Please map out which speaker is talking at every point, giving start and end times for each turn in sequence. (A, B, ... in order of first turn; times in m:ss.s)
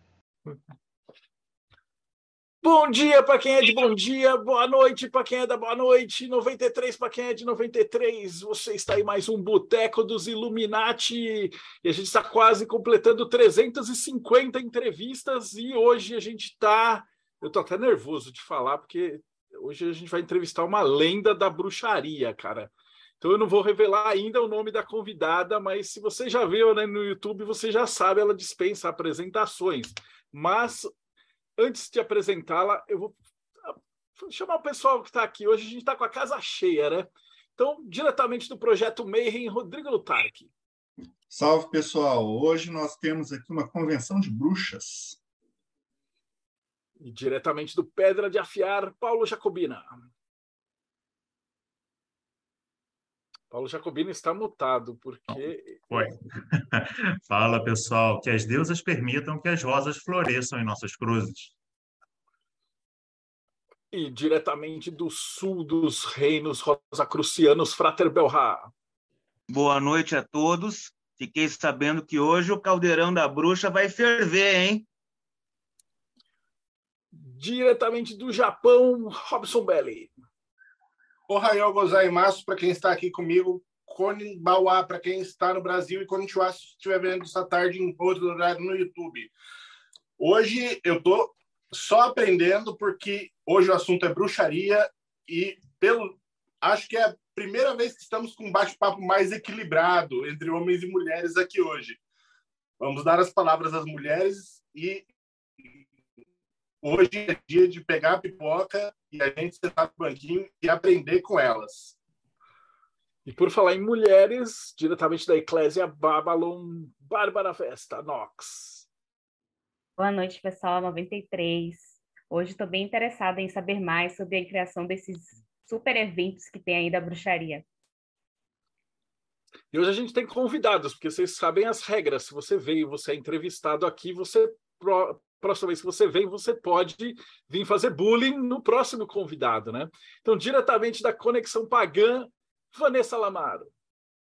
0:02.6-0:30.9 A
0:31.6-0:40.5 A
0:41.3-0:45.2 B
0:47.0-0:50.0 A
0:53.5-0:56.1 A
0:55.9-1:01.5 C
1:03.9-1:08.7 A
1:09.5-1:14.8 D
1:17.1-1:20.1 A
1:21.3-1:29.3 E
1:30.2-1:42.0 E
1:42.8-1:45.1 E
1:46.8-1:52.0 E
1:53.3-1:58.9 A
2:00.0-2:07.7 F
2:09.7-2:23.7 A